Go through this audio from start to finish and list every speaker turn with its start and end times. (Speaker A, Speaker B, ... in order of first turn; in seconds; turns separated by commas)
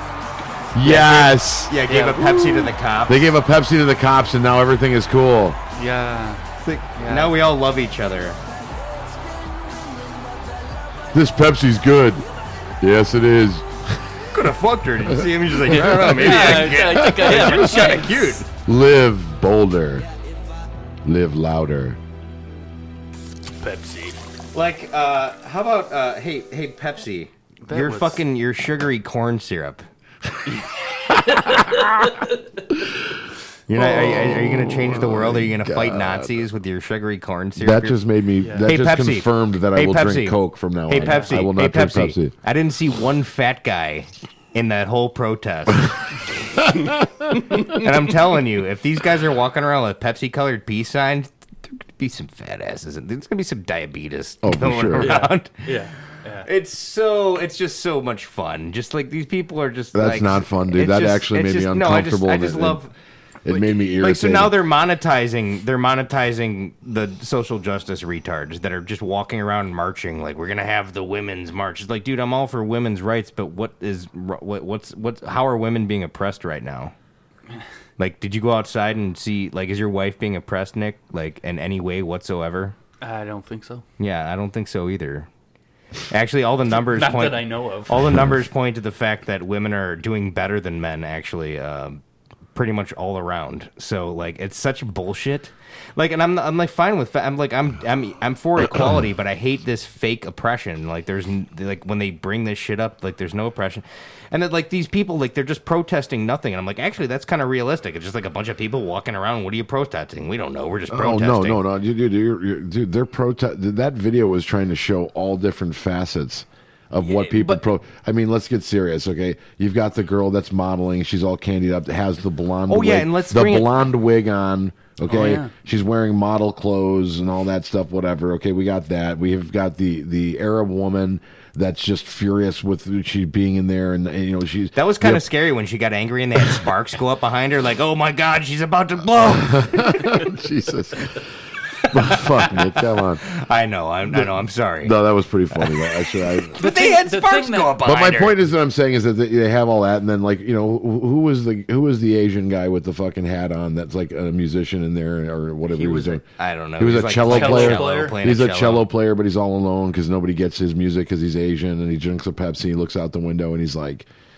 Speaker A: 0.7-1.8, Speaker B: 0.8-3.3, Speaker C: 1.9-2.7, Speaker A: 3.1-5.6, Speaker C: 5.7-6.4, Speaker B: 6.6-8.4, Speaker C: 7.0-7.4, Speaker A: 11.1-12.2, Speaker A: 12.8-14.0, Speaker B: 14.3-18.5, Speaker A: 15.1-18.0, Speaker C: 15.7-18.4, Speaker A: 18.6-20.1, Speaker A: 21.1-22.0, Speaker C: 23.6-24.2, Speaker B: 24.5-29.9, Speaker C: 27.6-28.2, Speaker C: 31.3-32.3, Speaker A: 31.4-31.9, Speaker A: 32.7-33.0, Speaker B: 33.7-38.0, Speaker A: 33.7-36.4, Speaker A: 37.6-42.3, Speaker C: 38.4-38.7, Speaker B: 38.6-46.0, Speaker C: 41.0-41.4, Speaker A: 46.6-47.0, Speaker B: 47.5-55.8, Speaker A: 54.4-55.1, Speaker C: 55.0-56.5, Speaker B: 56.4-62.9, Speaker A: 59.9-62.8, Speaker A: 63.4-64.6, Speaker B: 64.0-76.9, Speaker B: 78.0-82.8, Speaker C: 83.0-83.8, Speaker B: 84.0-85.3, Speaker B: 86.1-92.0, Speaker C: 86.7-88.1, Speaker B: 92.5-111.6, Speaker A: 110.9-135.2, Speaker C: 117.1-117.6, Speaker B: 122.7-123.8, Speaker C: 125.1-125.5, Speaker B: 134.8-140.3, Speaker A: 139.3-141.3, Speaker B: 141.8-142.6, Speaker A: 141.9-143.2, Speaker B: 143.2-144.9, Speaker A: 144.1-146.6, Speaker B: 146.5-148.4, Speaker C: 146.6-147.8, Speaker A: 147.8-156.2, Speaker C: 155.7-156.2, Speaker B: 156.4-158.8, Speaker A: 156.8-164.1, Speaker C: 157.3-158.2